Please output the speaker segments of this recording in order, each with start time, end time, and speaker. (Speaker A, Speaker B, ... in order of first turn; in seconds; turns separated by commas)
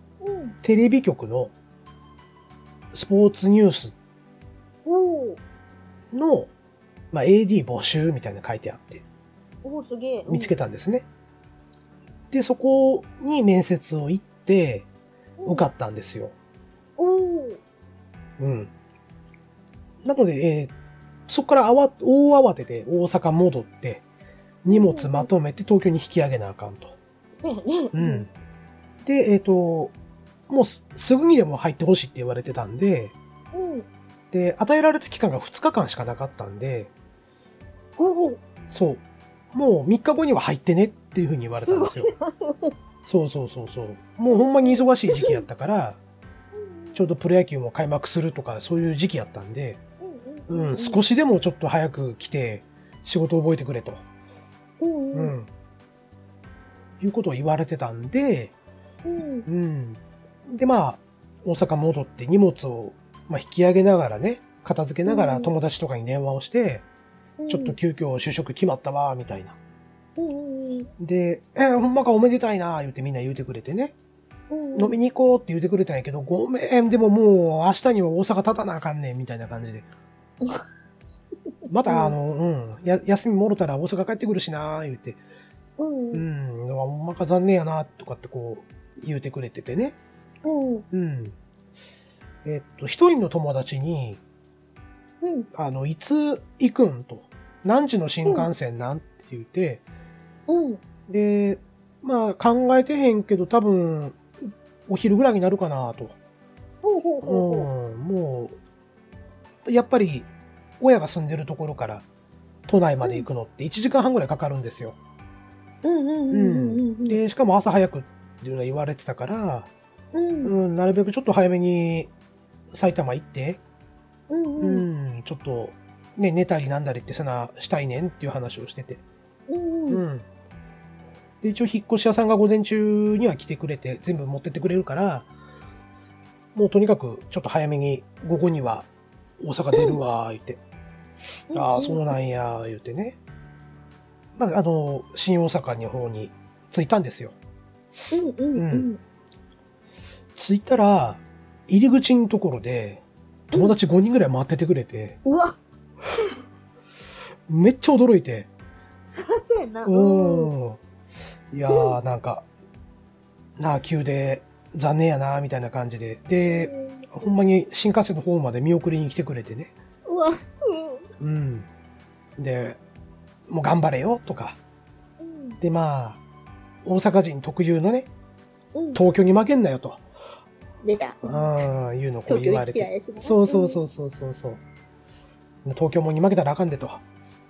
Speaker A: 0.2-0.6, Speaker B: 0.6-1.5, Speaker B: 2.9-3.9, Speaker A: 4.8-5.4, Speaker B: 6.1-6.5, Speaker B: 7.1-9.0, Speaker A: 9.6-10.5, Speaker B: 10.3-11.1, Speaker B: 12.3-14.9, Speaker A: 15.4-15.7, Speaker B: 15.4-16.3, Speaker A: 17.0-17.6, Speaker B: 18.4-18.7, Speaker B: 20.0-20.7, Speaker B: 21.3-24.0, Speaker B: 24.6-26.9, Speaker A: 24.7-25.3, Speaker A: 27.4-28.3, Speaker B: 27.9-28.3, Speaker B: 29.0-29.9, Speaker B: 30.5-33.1, Speaker A: 33.5-33.9, Speaker B: 34.3-36.9, Speaker A: 38.0-38.4, Speaker B: 38.7-39.0, Speaker B: 39.5-42.1, Speaker A: 41.5-42.7, Speaker B: 43.0-46.0, Speaker A: 44.3-45.4, Speaker A: 46.5-47.0, Speaker B: 46.9-49.8, Speaker A: 50.0-51.0, Speaker B: 50.5-54.0, Speaker A: 54.8-55.3, Speaker B: 55.1-55.5, Speaker B: 57.0-58.5, Speaker A: 59.0-59.5, Speaker B: 59.5-66.8, Speaker A: 65.0-65.5, Speaker A: 67.4-67.8, Speaker B: 67.5-69.6, Speaker A: 70.2-70.9, Speaker B: 71.0-73.9, Speaker A: 74.5-74.9, Speaker B: 74.7-79.9, Speaker B: 81.7-85.2, Speaker A: 81.8-82.1, Speaker A: 85.8-86.2, Speaker B: 86.1-90.0, Speaker A: 90.4-90.8, Speaker B: 90.9-91.4, Speaker B: 92.4-94.2, Speaker A: 95.2-95.5, Speaker B: 95.5-99.8, Speaker A: 100.5-100.8, Speaker B: 101.1-104.2, Speaker B: 104.9-106.2, Speaker A: 106.8-107.7, Speaker B: 107.2-108.5, Speaker B: 109.6-110.3, Speaker B: 110.8-112.0, Speaker B: 112.7-115.0, Speaker A: 115.8-117.2, Speaker B: 116.3-119.7, Speaker A: 120.1-120.5, Speaker B: 120.4-122.1, Speaker B: 122.7-123.6, Speaker A: 124.3-124.8, Speaker B: 124.6-129.0, Speaker A: 129.5-130.0, Speaker B: 129.9-130.2, Speaker B: 131.4-135.3, Speaker B: 136.5-138.9, Speaker B: 139.4-140.6, Speaker A: 139.7-140.0, Speaker A: 141.5-142.2, Speaker B: 141.5-143.2, Speaker B: 144.3-147.3, Speaker A: 148.1-149.0, Speaker B: 148.5-148.9, Speaker B: 150.3-155.2, Speaker A: 155.2-155.6, Speaker B: 157.5-158.5, Speaker A: 159.1-160.5, Speaker B: 159.8-160.8, Speaker B: 161.5-162.4, Speaker A: 161.7-161.9, Speaker B: 163.6-169.8, Speaker A: 166.4-167.3, Speaker A: 170.1-171.0, Speaker B: 171.2-171.7, Speaker B: 172.4-172.8, Speaker B: 173.5-174.6, Speaker A: 175.2-175.6, Speaker B: 175.6-176.2, Speaker B: 176.8-178.1, Speaker A: 178.7-179.0, Speaker B: 178.9-180.0, Speaker A: 180.8-181.5, Speaker B: 181.2-184.6, Speaker A: 182.3-183.8, Speaker B: 185.6-187.0